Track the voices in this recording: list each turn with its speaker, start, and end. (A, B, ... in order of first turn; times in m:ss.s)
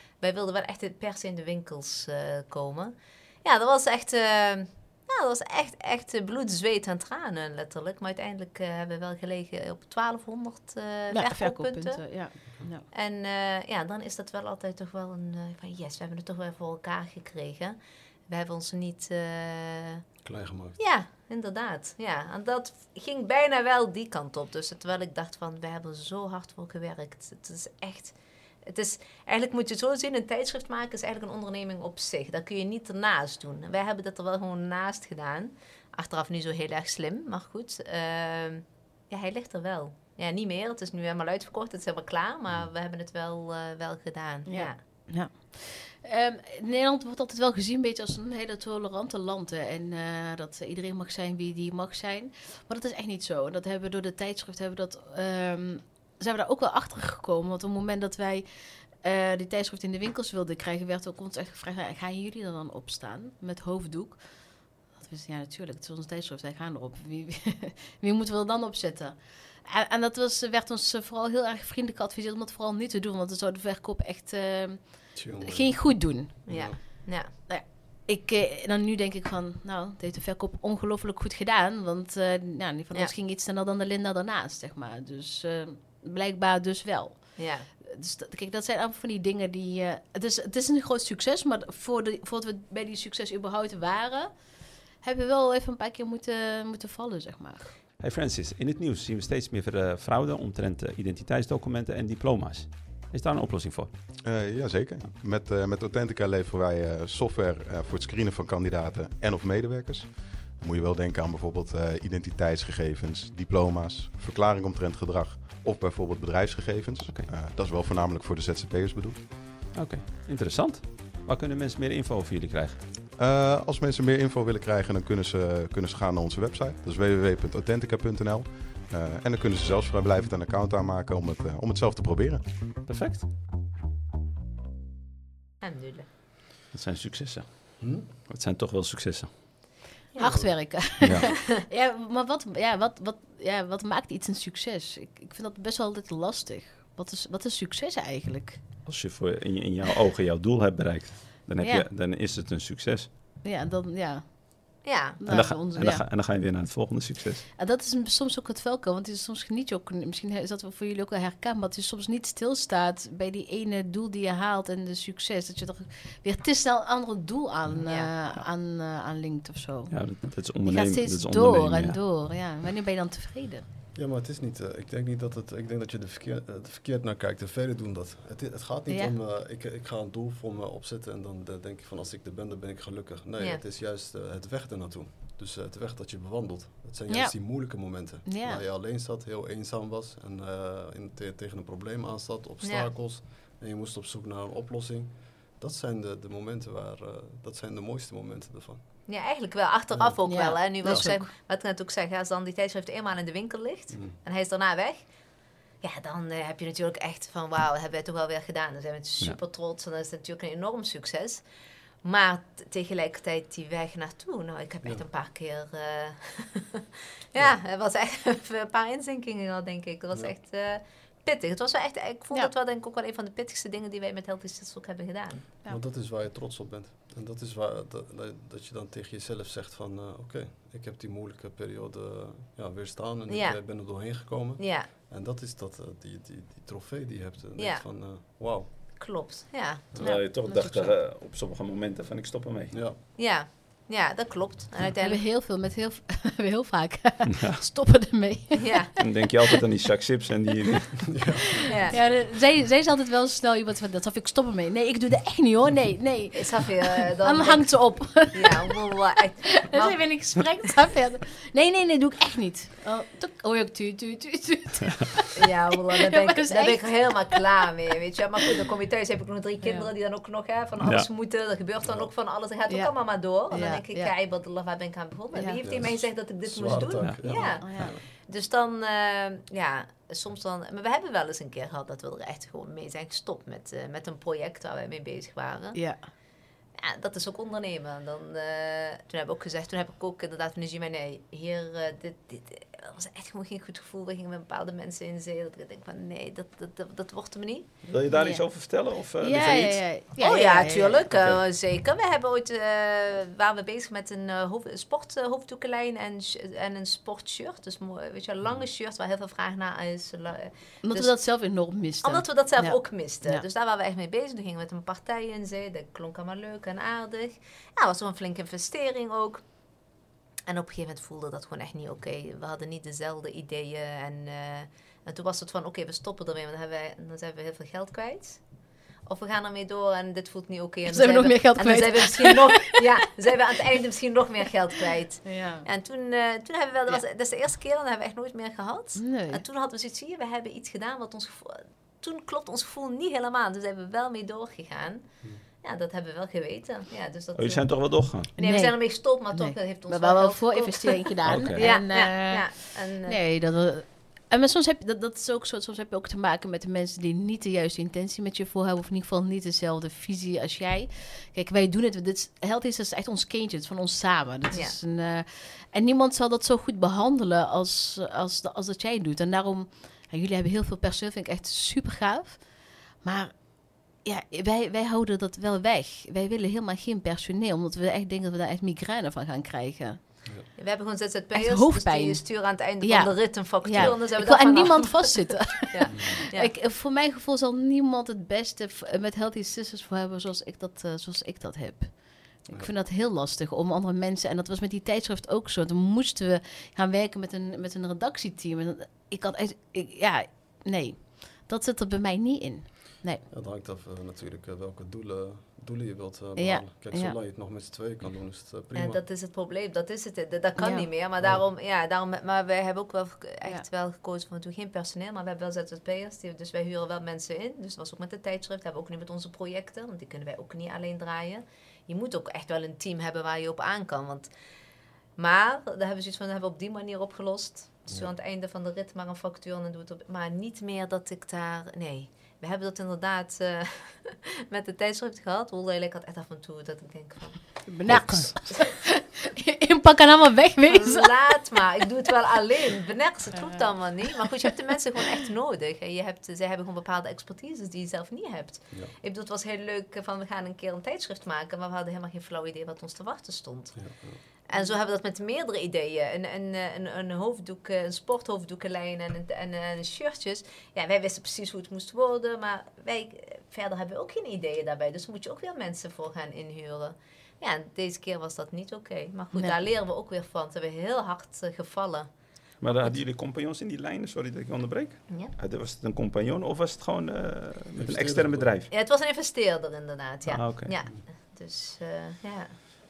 0:00.2-0:12.4 A
0:11.1-0:12.9 B
0:12.9-0:17.8 A
0:18.3-0:20.2 A
0:20.2-0:20.8 C
0:20.8-0:44.8 A
0:44.4-1:37.7 B
1:15.1-1:16.8 C
1:16.5-1:17.3 A
1:27.4-1:27.7 A
1:38.0-1:44.0 D
1:44.2-1:59.6 E
1:57.0-1:57.3 D
1:59.7-2:02.9 D
2:03.1-2:12.5 E
2:12.8-2:13.3 D
2:15.6-2:16.1 A
2:16.7-2:19.7 D
2:17.8-2:18.1 C
2:20.1-2:20.7 A
2:20.2-2:28.8 B
2:20.2-2:20.7 C
2:21.0-2:21.3 E
2:28.8-2:33.1 D
2:31.6-2:31.9 B
2:33.4-2:36.0 B
2:34.8-2:35.2 A
2:35.3-2:37.4 D
2:37.6-2:53.6 B
2:47.8-2:48.1 A
2:49.9-2:52.0 D
2:53.9-3:19.1 C
2:58.9-2:59.1 B
3:07.1-3:08.6 B
3:12.6-3:12.9 A
3:19.1-3:31.4 A
3:19.9-3:21.1 C
3:20.2-3:21.3 B
3:23.9-3:24.2 C
3:32.0-3:45.5 A
3:45.6-3:58.7 C
3:53.3-3:54.9 A
3:57.6-3:57.9 A
3:59.0-3:59.9 A
3:59.9-4:01.0 C
4:00.0-4:02.8 D
4:00.0-4:00.6 B
4:02.7-4:03.0 C
4:03.2-4:05.2 A
4:05.0-4:09.2 B
4:08.6-4:08.9 A
4:09.0-4:11.2 D
4:11.1-4:12.2 C
4:11.7-4:12.0 A
4:11.7-4:19.0 B
4:16.3-4:20.4 A
4:19.5-4:25.3 B
4:25.4-4:46.2 A
4:26.1-4:27.4 B
4:29.6-4:29.9 B
4:30.8-4:31.1 D
4:31.8-4:32.1 C
4:32.7-4:34.1 B
4:35.3-4:35.6 B
4:35.6-4:38.0 C
4:37.4-4:37.9 B
4:45.7-4:46.1 B
4:46.8-4:57.8 A
4:57.8-4:59.9 D
4:58.1-5:01.0 B
5:00.2-5:53.2 A
5:01.1-5:01.4 D
5:10.8-5:13.4 B
5:30.9-5:32.6 B
5:35.2-5:35.7 B
5:39.0-5:39.4 B
5:47.3-5:48.3 D
5:48.4-6:20.0 B
5:51.2-5:51.8 D
6:04.5-6:04.8 A
6:20.6-6:26.5 A
6:21.3-6:43.2 B
6:43.3-6:49.0 C
6:46.4-6:47.2 B
6:48.7-7:04.3 A
6:50.6-6:50.9 B
7:05.2-7:18.8 A
7:17.7-7:21.2 B
7:17.9-7:18.3 D
7:20.7-7:34.0 A
7:23.3-7:24.3 B
7:33.7-7:34.2 C
7:34.5-7:53.0 A
7:49.3-7:49.6 B
7:52.6-7:58.7 D
7:57.7-7:58.6 C
7:58.7-8:02.5 A
8:00.3-8:00.7 D